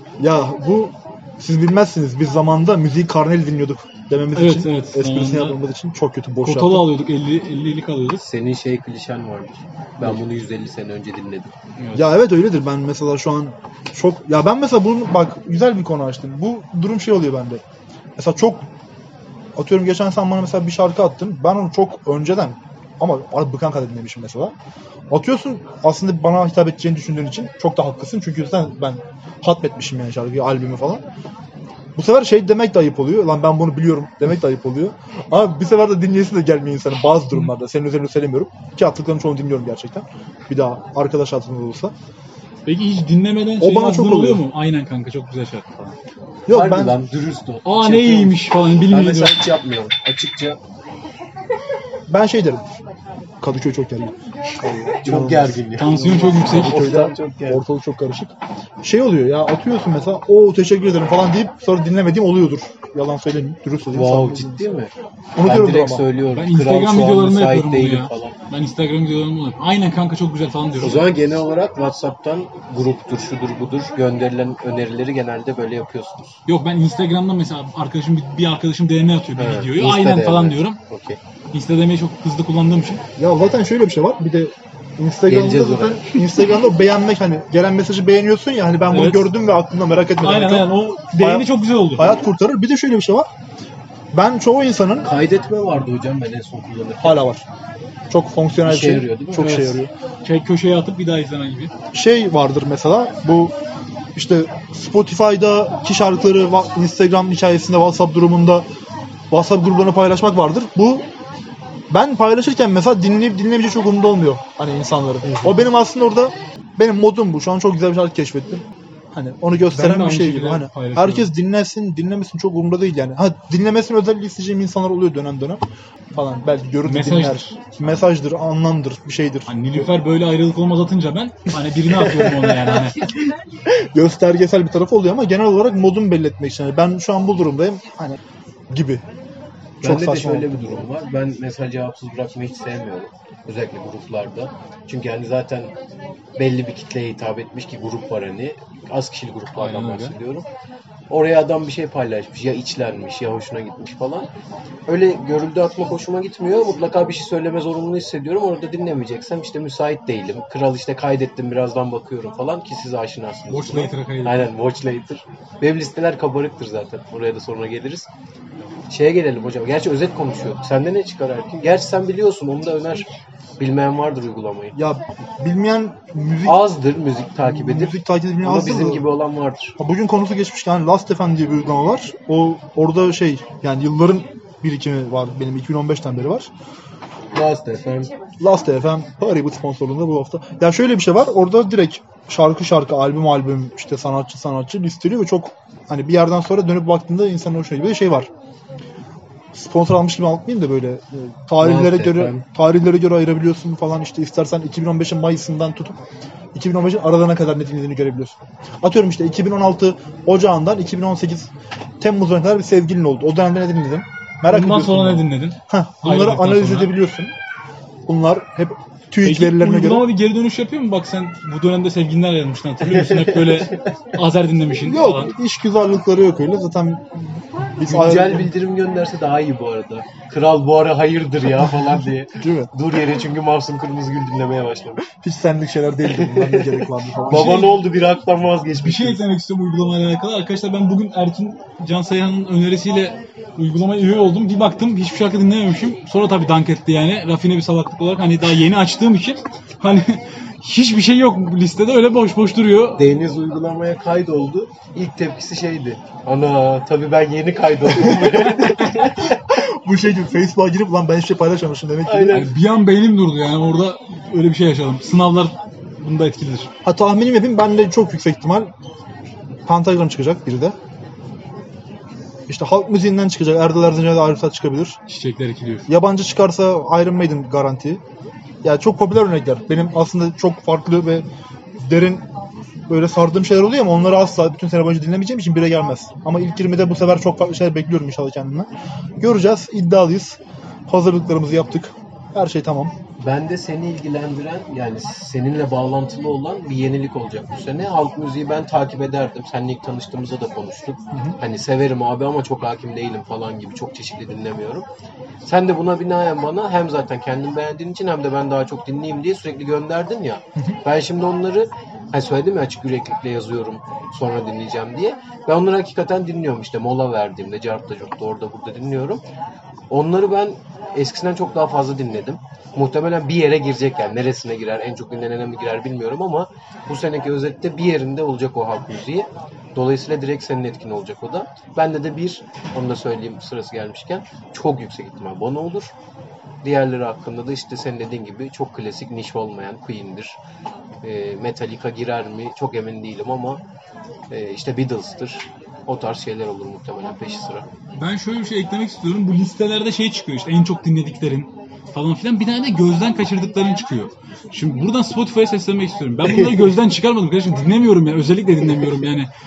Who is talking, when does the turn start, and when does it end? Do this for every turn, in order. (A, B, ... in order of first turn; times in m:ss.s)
0:00.2-0:06.9 A
0:04.4-0:05.6 B
0:06.4-0:08.2 B
0:08.2-0:11.5 C
0:11.8-0:12.1 B
0:11.9-0:17.6 A
0:18.2-0:18.7 A
0:19.6-0:24.5 A
0:25.1-0:31.0 A
0:32.0-0:41.9 A
0:42.7-0:46.0 B
0:43.6-0:44.4 A
0:46.5-0:47.0 A
0:46.5-0:50.6 C
0:47.6-0:49.4 B
0:52.1-0:52.6 A
0:53.4-0:55.6 A
0:55.0-0:57.6 C
0:55.7-0:56.8 B
0:56.2-1:04.7 A
1:03.9-1:08.4 C
1:05.4-1:06.1 A
1:06.3-1:11.1 B
1:10.8-1:16.4 C
1:16.5-1:20.8 B
1:19.4-1:21.2 C
1:21.5-1:23.0 B
1:23.2-1:33.3 A
1:25.3-1:26.2 C
1:28.9-1:29.3 B
1:30.2-1:32.2 B
1:34.1-1:35.1 A
1:35.0-1:37.3 C
1:37.0-1:37.4 A
1:38.1-1:39.9 A
1:38.6-1:39.6 C
1:39.4-1:41.7 B
1:41.9-1:43.5 A
1:44.2-1:48.7 A
1:49.3-1:51.1 A
1:51.9-2:05.6 A
1:55.2-1:55.6 C
1:59.7-2:01.3 B
2:06.1-2:09.5 A
2:06.8-2:07.8 B
2:09.5-2:13.0 B
2:12.4-2:12.9 C
2:13.7-2:18.2 A
2:18.7-2:19.0 A
2:19.8-2:25.7 C
2:19.8-2:20.9 A
2:26.4-2:30.5 C
2:29.6-2:30.1 B
2:31.1-2:34.3 C
2:34.9-2:48.1 C
2:43.5-2:44.5 B
2:48.9-2:53.1 C
2:53.6-2:54.8 C
2:54.8-2:56.7 A
2:56.4-2:59.8 C
2:57.4-2:59.1 A
2:59.8-3:06.5 A
3:07.3-3:08.1 C
3:08.4-3:18.3 A
3:19.5-3:26.0 A
3:21.6-3:22.4 C
3:26.5-3:37.3 A
3:34.5-3:36.9 B
3:38.1-3:40.1 A
3:39.2-3:45.3 B
3:43.0-3:43.7 C
3:44.8-3:48.5 A
3:47.9-3:55.0 C
3:52.4-3:52.7 A
3:55.1-3:57.7 A
3:56.1-3:59.2 C
3:57.3-3:57.7 B
3:58.8-4:13.1 B
4:13.0-4:19.4 C
4:19.2-4:22.4 A
4:22.1-4:22.5 C
4:22.3-4:26.7 B
4:26.8-4:28.7 A
4:29.7-4:30.8 A
4:32.5-4:35.0 A
4:35.1-4:35.9 B
4:35.9-4:38.0 A
4:38.6-4:41.3 A
4:41.8-4:42.2 A
4:42.9-4:48.7 A
4:49.2-4:52.9 A
4:53.2-5:04.9 C
5:05.4-5:19.2 C
5:19.9-5:35.9 C
5:36.6-5:40.4 C
5:41.0-5:43.6 C
5:44.3-5:47.7 C
5:48.0-5:59.3 B